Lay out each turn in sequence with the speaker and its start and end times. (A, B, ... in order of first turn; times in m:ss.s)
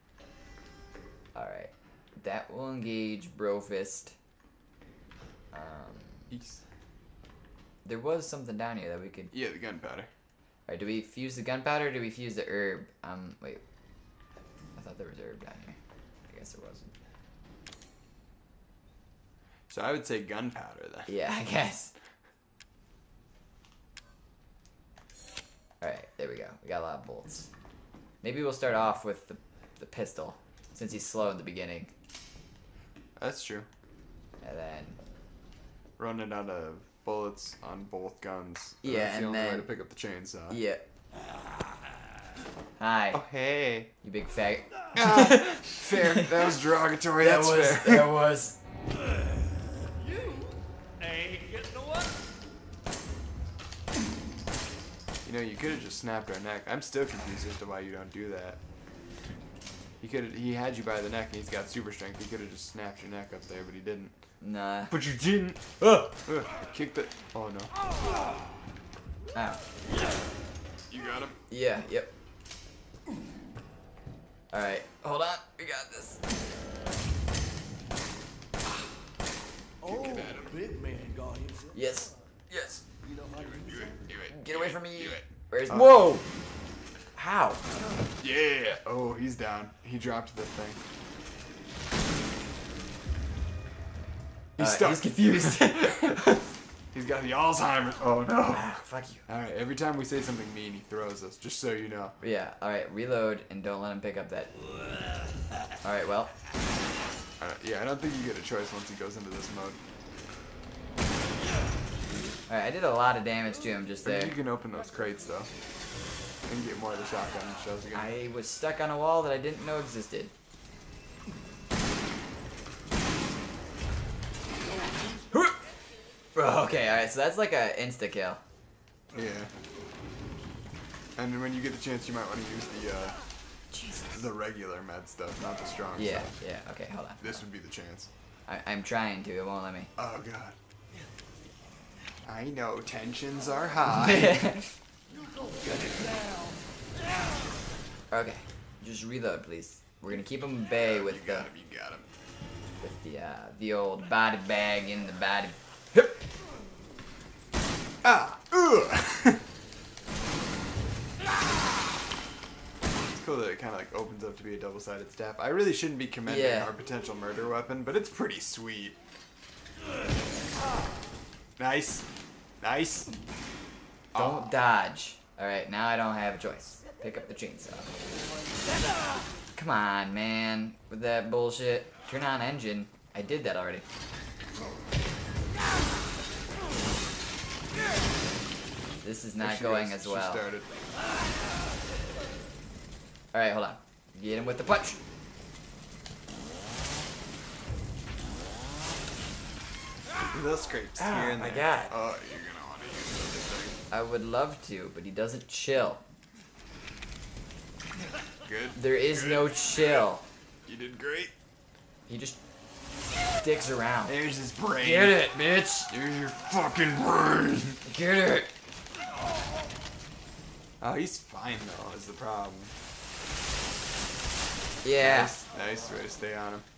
0:01.4-0:04.2 A
0:05.5-0:06.3 A
0:06.3-0:06.6 B
0:07.8-0:09.3 A
0:09.3-0:10.1 B
0:10.7-0:13.6 A
0:14.8-0:16.9 A
0:19.7-0:21.1 B
0:21.1-0:22.0 A
0:25.8-0:27.5 A
0:28.2-0:31.9 A
0:33.2-0:33.7 B
0:34.4-0:35.0 A
0:36.0-0:40.6 B
0:38.8-0:39.7 A
0:40.5-0:40.8 A
0:42.8-0:43.2 A
0:43.1-0:43.9 B
0:44.0-0:46.5 A
0:44.9-0:48.2 B
0:47.2-0:48.6 A
0:50.0-0:52.2 C
0:55.2-0:58.6 B
1:00.0-1:04.2 B
1:04.4-1:04.9 A
1:04.9-1:05.7 B
1:05.8-1:06.2 A
1:06.2-1:07.7 B
1:09.3-1:09.6 A
1:10.9-1:11.4 B
1:11.5-1:12.1 A
1:14.5-1:16.2 A
1:19.8-1:22.0 C
1:19.8-1:20.6 B
1:21.7-1:22.8 A
1:23.0-1:24.0 C
1:23.4-1:26.0 B
1:24.3-1:26.2 A
1:27.2-1:27.6 A
1:28.2-1:30.8 B
1:34.6-1:36.2 B
1:34.6-1:36.5 A
1:36.9-1:38.7 B
1:38.5-1:39.2 A
1:39.3-1:42.2 B
1:42.2-1:44.5 A
1:45.8-1:46.3 A
1:47.4-1:49.8 B
1:52.5-1:54.4 A
1:54.0-1:55.5 B
1:56.5-1:58.1 B
1:57.9-2:00.3 A
2:05.3-2:05.6 A
2:06.4-2:08.4 A
2:09.1-2:09.5 B
2:11.2-2:13.2 B
2:13.7-2:14.2 A
2:14.1-2:16.3 B
2:16.0-2:17.4 A
2:17.2-2:18.1 B
2:18.5-2:19.9 A
2:20.0-2:20.6 B
2:22.2-2:24.6 B
2:23.9-2:24.8 A
2:25.1-2:26.6 C
2:28.1-2:31.5 A
2:30.8-2:32.1 B
2:32.8-2:36.2 A
2:38.0-2:39.4 B
2:43.2-2:49.0 B
2:46.3-2:46.7 A
2:51.6-2:52.1 B
2:52.6-2:53.1 B
2:54.1-2:54.5 B
2:54.2-2:57.9 A
2:59.6-3:03.8 A
3:09.0-3:10.5 A
3:09.4-3:10.7 B
3:13.3-3:15.0 A
3:20.3-3:23.8 B
3:21.0-3:21.9 A
3:23.9-3:26.0 A
3:28.4-3:30.0 B
3:28.8-3:30.2 A
3:30.7-3:31.3 B
3:32.1-3:32.4 A
3:33.4-3:34.2 A
3:34.1-3:35.2 B
3:34.8-3:35.9 A
3:35.9-3:37.8 B
3:37.9-3:38.5 A
3:40.8-3:42.7 B
3:44.8-3:45.3 A
3:45.0-3:46.7 B